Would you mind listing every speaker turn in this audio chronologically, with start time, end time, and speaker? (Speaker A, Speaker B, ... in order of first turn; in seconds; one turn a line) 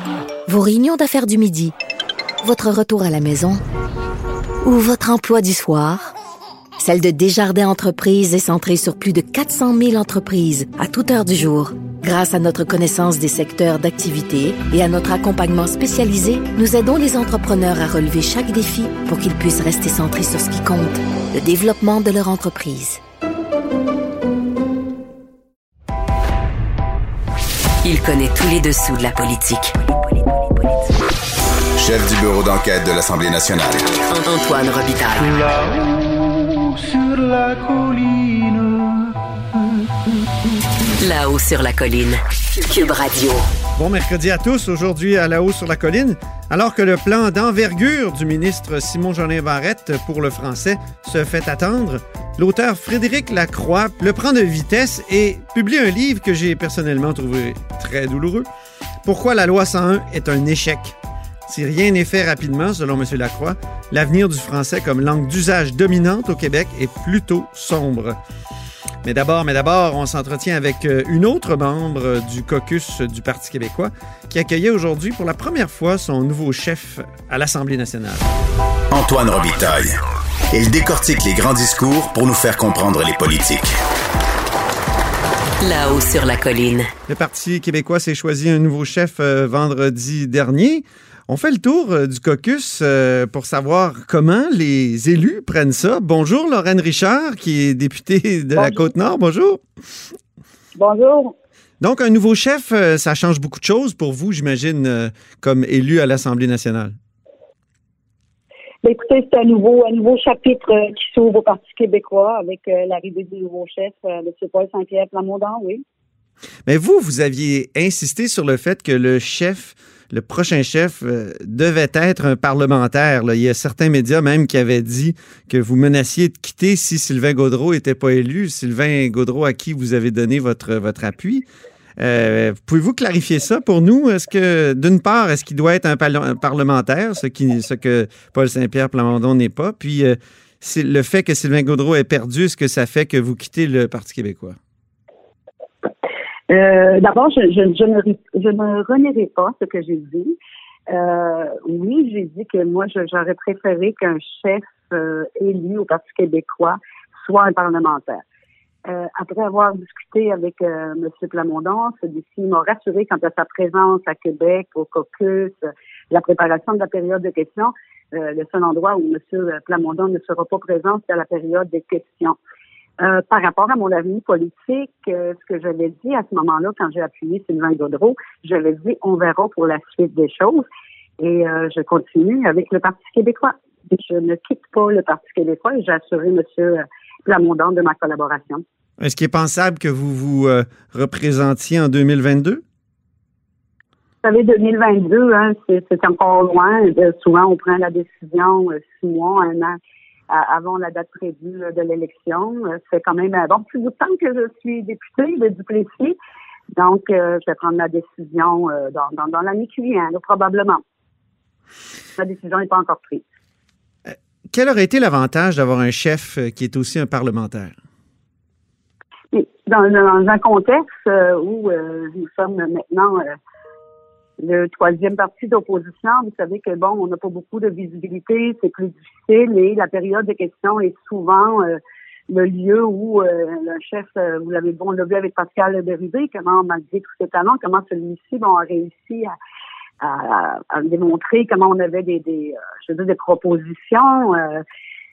Speaker A: 0.5-1.7
Speaker A: 2.4-3.6
Speaker A: 4.6-6.1
Speaker A: 6.8-23.0
Speaker B: 27.8-30.8
Speaker C: 31.8-33.9
Speaker B: 34.1-35.7
Speaker B: 41.0-43.5
Speaker D: 43.8-58.5
Speaker D: 59.0-61.0
Speaker D: 61.5-68.2
Speaker D: 69.0-78.3
Speaker C: 78.9-80.0
Speaker C: 80.5-83.8
Speaker B: 85.6-86.9
Speaker D: 87.1-99.6
Speaker E: 98.6-98.9
Speaker E: 100.8-101.3
Speaker D: 101.8-107.0
Speaker E: 108.8-115.8
Speaker D: 116.7-131.4
Speaker D: 132.0-144.6
Speaker E: 146.5-150.3
Speaker E: 150.9-158.2
Speaker E: 158.9-165.6
Speaker E: 166.1-172.4
Speaker E: 173.0-180.7
Speaker E: 181.2-188.6
Speaker D: 189.0-192.6
Speaker E: 194.2-199.8
Speaker E: 200.3-206.2
Speaker E: 206.8-210.8
Speaker E: 212.2-213.2
Speaker D: 214.1-217.8
Speaker E: 219.3-223.3
Speaker E: 224.4-239.3
Speaker E: 240.0-244.6